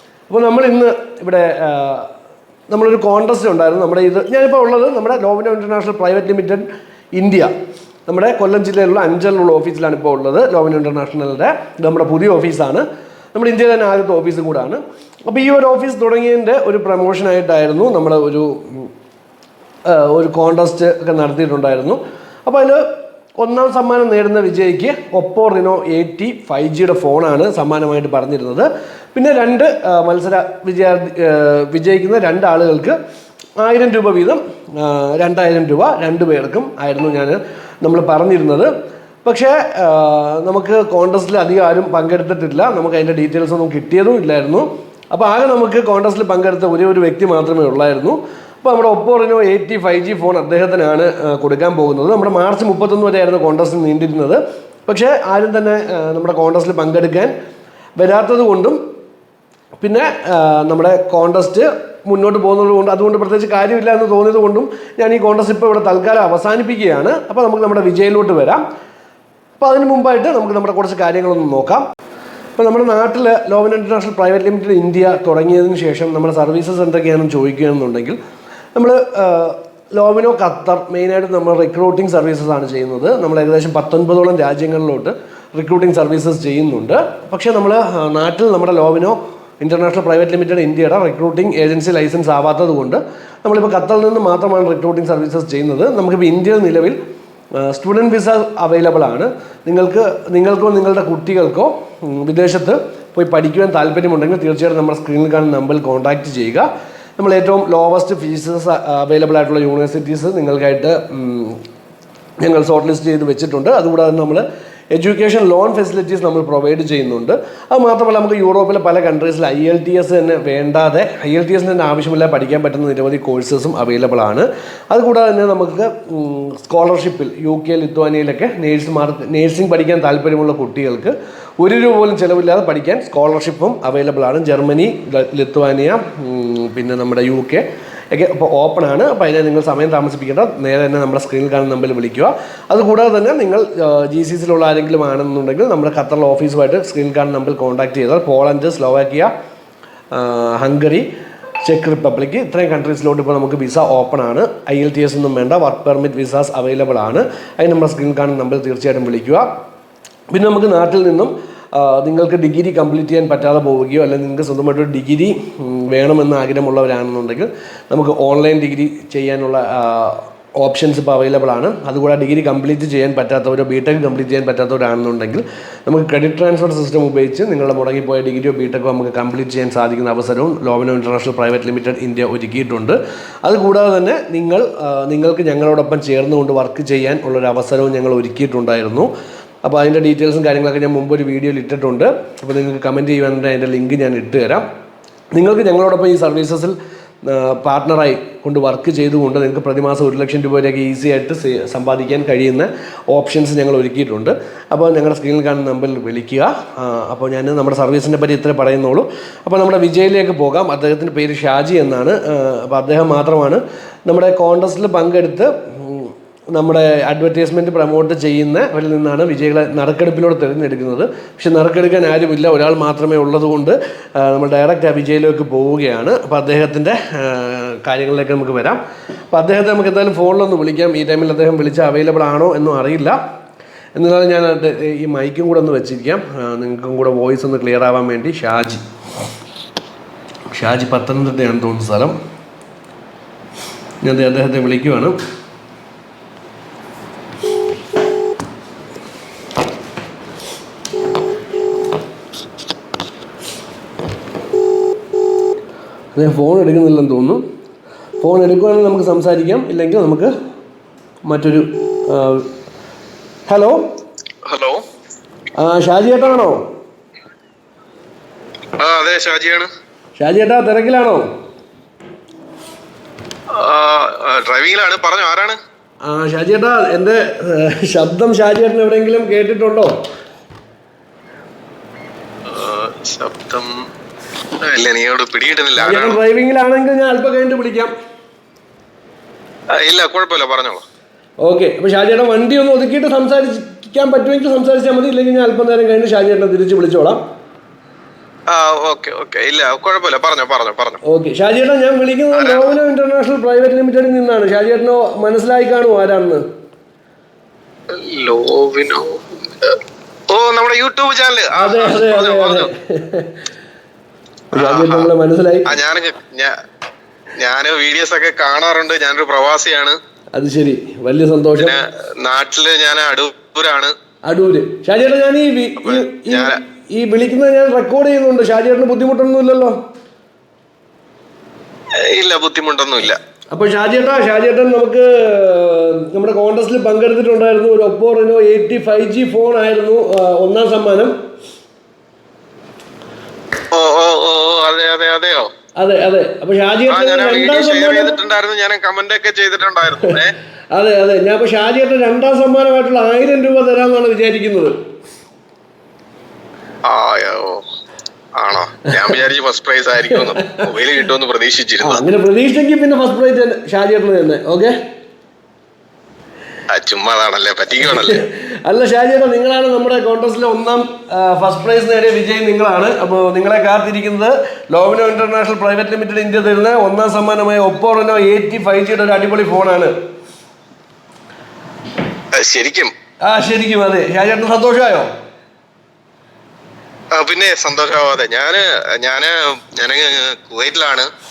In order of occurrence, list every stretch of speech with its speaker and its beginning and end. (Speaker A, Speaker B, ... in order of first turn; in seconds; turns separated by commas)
Speaker A: 0.3-2.1, Speaker A: 2.7-7.5, Speaker A: 8.1-18.9, Speaker A: 19.9-22.9, Speaker A: 23.4-33.0, Speaker A: 33.6-38.7, Speaker A: 39.2-57.3, Speaker A: 58.0-58.8, Speaker A: 59.8-68.6, Speaker A: 69.6-71.8, Speaker A: 72.6-78.2, Speaker A: 78.8-97.0, Speaker A: 97.6-111.6, Speaker A: 112.4-149.3, Speaker A: 150.1-151.1, Speaker A: 151.6-159.5, Speaker A: 160.3-189.1, Speaker A: 189.6-194.7, Speaker A: 195.3-228.8, Speaker A: 229.3-233.2, Speaker A: 233.9-238.8, Speaker A: 240.5-242.2, Speaker A: 244.0-245.2, Speaker A: 256.1-257.4, Speaker A: 258.2-260.3, Speaker A: 261.2-262.5, Speaker A: 263.5-263.8, Speaker B: 264.5-264.8, Speaker A: 265.6-266.6, Speaker B: 268.8-269.7, Speaker A: 270.2-271.2, Speaker B: 273.6-275.6, Speaker A: 276.1-279.9, Speaker B: 282.5-283.7, Speaker B: 284.6-286.2, Speaker A: 285.8-287.9, Speaker B: 289.7-290.9, Speaker A: 291.4-297.2, Speaker B: 298.5-301.0, Speaker A: 301.1-306.4, Speaker B: 302.3-302.8, Speaker B: 307.9-309.8, Speaker B: 310.3-312.7, Speaker A: 311.6-313.4, Speaker A: 314.5-315.7, Speaker B: 314.5-315.1, Speaker B: 315.7-316.5, Speaker B: 317.4-320.0, Speaker A: 320.4-321.8, Speaker B: 321.6-323.9, Speaker A: 324.3-329.8, Speaker B: 325.8-326.6, Speaker B: 332.0-333.2, Speaker A: 333.5-341.1, Speaker B: 343.7-345.5, Speaker A: 345.8-348.1, Speaker B: 346.9-350.4, Speaker A: 350.7-354.8, Speaker B: 356.9-357.6, Speaker B: 358.4-362.0, Speaker A: 360.2-360.7, Speaker A: 361.8-364.8, Speaker B: 366.7-368.2, Speaker A: 367.8-379.9, Speaker B: 382.4-382.9, Speaker A: 383.2-385.1, Speaker B: 387.1-391.1